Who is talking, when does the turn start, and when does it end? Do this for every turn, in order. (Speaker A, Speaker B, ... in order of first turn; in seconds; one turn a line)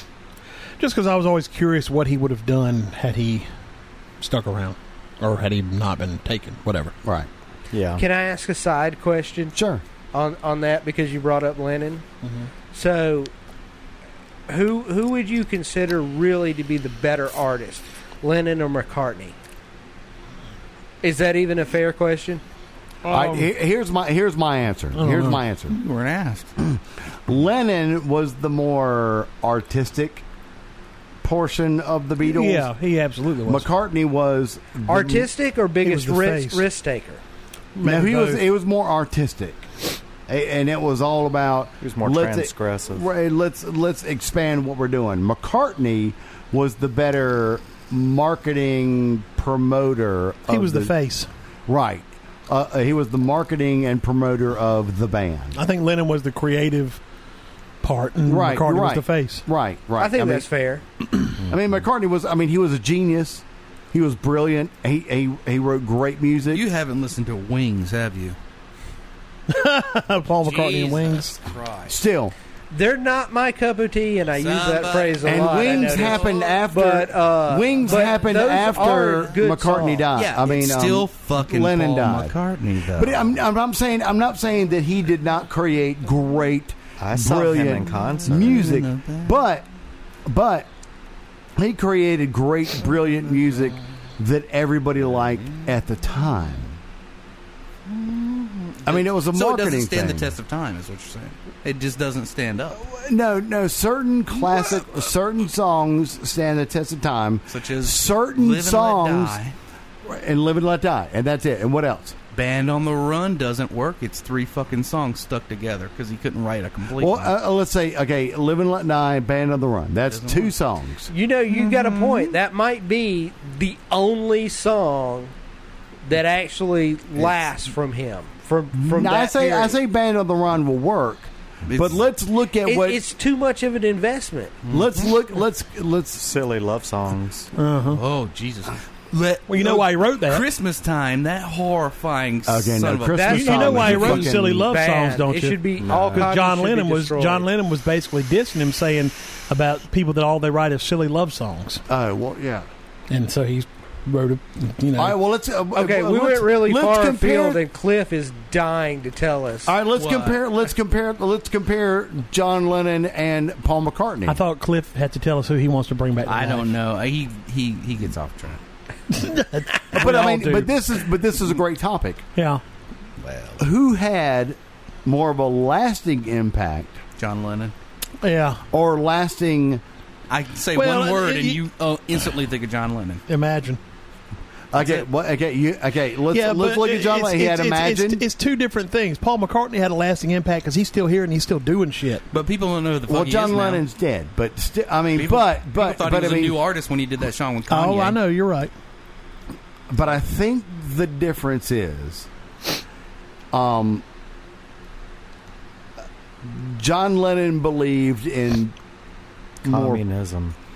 Speaker A: 0.8-3.5
Speaker A: 4.2-6.9
Speaker B: 7.0-7.3
Speaker C: 7.7-8.0
Speaker D: 8.0-9.5
Speaker B: 9.5-9.8
Speaker D: 10.1-12.0
Speaker D: 12.7-13.3
Speaker D: 14.5-19.4
Speaker D: 21.0-22.4
Speaker A: 23.0-23.5
Speaker B: 23.1-25.8
Speaker A: 24.9-25.4
Speaker E: 25.7-26.5
Speaker B: 26.6-30.2
Speaker B: 31.2-32.7
Speaker A: 32.2-33.7
Speaker B: 33.4-35.3
Speaker D: 34.9-37.2
Speaker A: 35.8-36.6
Speaker A: 37.8-38.4
Speaker B: 37.8-39.7
Speaker B: 40.3-50.9
Speaker C: 41.8-43.0
Speaker A: 50.5-51.3
Speaker B: 51.7-55.6
Speaker A: 55.5-57.0
Speaker A: 57.8-59.4
Speaker B: 58.2-60.5
Speaker D: 60.0-60.8
Speaker B: 61.5-66.6
Speaker E: 66.5-68.4
Speaker A: 69.5-71.3
Speaker E: 70.4-72.0
Speaker B: 71.9-72.3
Speaker D: 72.7-80.1
Speaker E: 74.3-76.6
Speaker B: 75.2-82.3
Speaker E: 77.9-79.3
Speaker E: 80.1-83.3
Speaker B: 82.9-89.7
Speaker C: 87.0-88.8
Speaker E: 88.3-89.4
Speaker B: 90.2-90.7
Speaker B: 91.6-96.7
Speaker E: 97.9-102.8
Speaker B: 98.8-100.3
Speaker B: 102.8-109.4
Speaker E: 107.5-109.5
Speaker B: 110.0-112.2
Speaker E: 112.3-117.3
Speaker B: 117.0-121.1
Speaker E: 120.1-120.5
Speaker D: 121.1-125.3
Speaker E: 121.5-122.3
Speaker D: 126.0-129.8
Speaker B: 128.8-133.0
Speaker E: 131.7-132.0
Speaker D: 132.6-134.6
Speaker E: 134.6-135.1
Speaker B: 134.7-136.2
Speaker C: 136.2-137.5
Speaker A: 137.6-138.0
Speaker E: 137.9-144.3
Speaker A: 139.5-140.4
Speaker B: 142.4-144.7
Speaker D: 143.1-147.5
Speaker A: 143.3-151.8
Speaker C: 145.8-146.3
Speaker B: 151.9-152.7
Speaker A: 153.1-155.2
Speaker B: 155.0-157.6
Speaker D: 155.7-159.7
Speaker B: 159.7-164.4
Speaker E: 159.9-160.4
Speaker A: 164.2-166.7
Speaker E: 166.2-168.6
Speaker A: 169.1-170.7
Speaker B: 169.9-172.2
Speaker A: 172.3-172.6
Speaker E: 173.2-173.7
Speaker B: 173.6-177.0
Speaker E: 177.2-177.7
Speaker A: 178.2-178.6
Speaker B: 178.7-179.8
Speaker E: 180.3-183.2
Speaker A: 180.8-181.6
Speaker A: 183.3-183.8
Speaker E: 184.7-185.1
Speaker B: 184.7-188.2
Speaker A: 186.3-192.2
Speaker E: 192.3-193.8
Speaker B: 193.1-196.6
Speaker E: 195.1-198.2
Speaker A: 197.7-198.7
Speaker B: 199.9-202.3
Speaker B: 203.5-204.0
Speaker B: 206.4-208.7
Speaker B: 209.6-210.0
Speaker C: 209.7-210.6